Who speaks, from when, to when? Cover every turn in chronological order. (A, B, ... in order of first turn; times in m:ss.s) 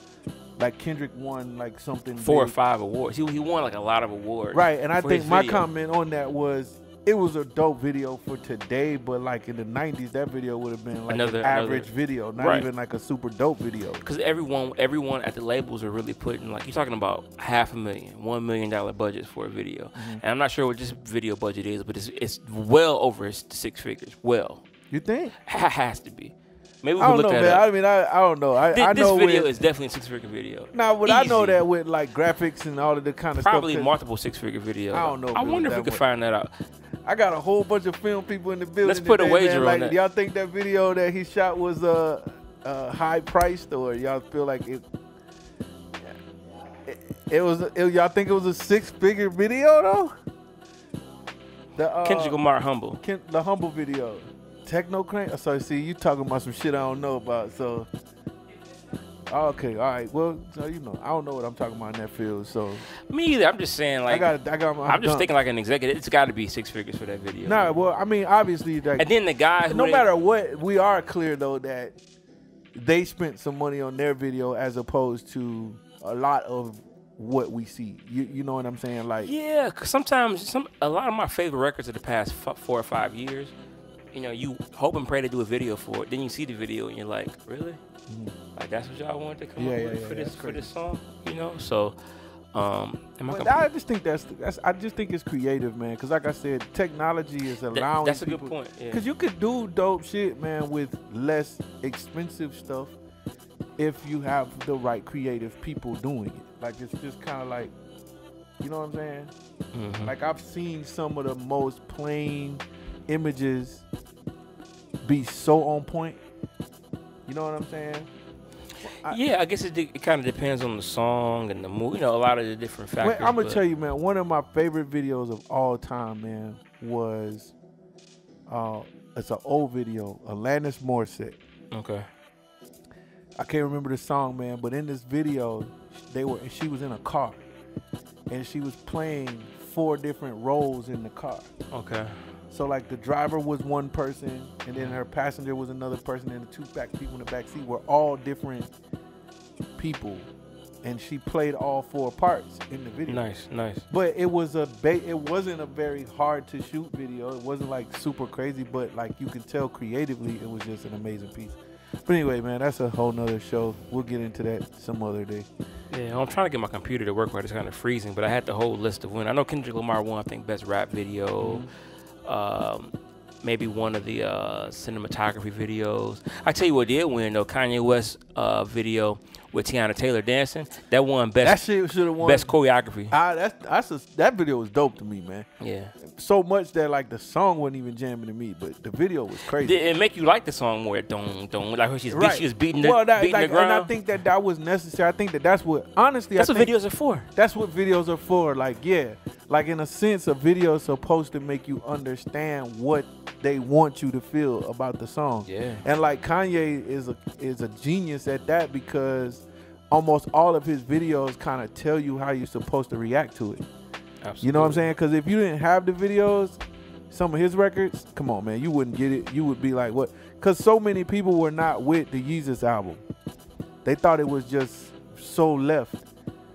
0:00.6-0:02.5 A
0:02.2-0:05.7 B
0:04.5-0:14.0 A
0:11.1-0:12.7 B
0:14.0-0:24.6 B
0:20.0-0:20.2 A
0:24.9-0:25.3 A
0:25.4-0:27.7 B
0:27.0-0:29.5 A
0:28.7-0:31.6 B
0:30.7-0:33.9 A
0:33.4-0:36.5 B
0:34.9-0:36.0 A
0:37.0-0:44.8 A
0:38.8-0:40.0 B
0:46.8-0:50.2 A
0:51.7-0:52.4 A
0:52.0-0:53.0 B
0:53.0-0:57.9 A
0:59.3-1:02.8 A
1:03.1-1:04.3 B
1:04.1-1:05.3 A
1:04.8-1:07.8 B
1:07.4-1:09.1 A
1:09.0-1:10.0 B
1:09.6-1:12.0 A
1:12.7-1:19.3 A
1:19.2-1:23.5 B
1:24.1-1:27.8 B
1:28.6-1:32.0 B
1:29.6-1:30.7 A
1:32.5-1:33.6 B
1:33.3-1:43.0 A
1:37.7-1:39.0 B
1:43.8-1:47.7 A
1:48.6-1:49.3 A
1:49.7-1:50.1 B
1:50.0-1:53.8 A
1:55.0-1:56.2 A
1:57.3-1:58.1 A
1:59.0-2:03.6 B
2:03.0-2:07.5 A
2:08.5-2:11.4 A
2:11.7-2:12.0 B
2:13.4-2:17.4 A
2:18.3-2:21.5 A
2:21.7-2:22.2 B
2:22.5-2:28.7 A
2:29.8-2:30.3 A
2:30.8-2:33.2 A
2:33.1-2:33.8 B
2:33.9-2:45.5 A
2:45.9-2:51.6 B
2:51.4-2:51.7 A
2:52.2-3:01.6 B
3:01.4-3:02.5 A
3:02.2-3:03.2 B
3:03.1-3:05.5 A
3:05.6-3:05.9 B
3:06.0-3:09.8 A
3:09.6-3:13.9 B
3:12.1-3:16.7 A
3:16.4-3:17.3 B
3:17.3-3:33.6 A
3:25.4-3:25.8 B
3:34.2-3:34.9 B
3:34.4-3:43.0 A
3:43.8-3:46.0 A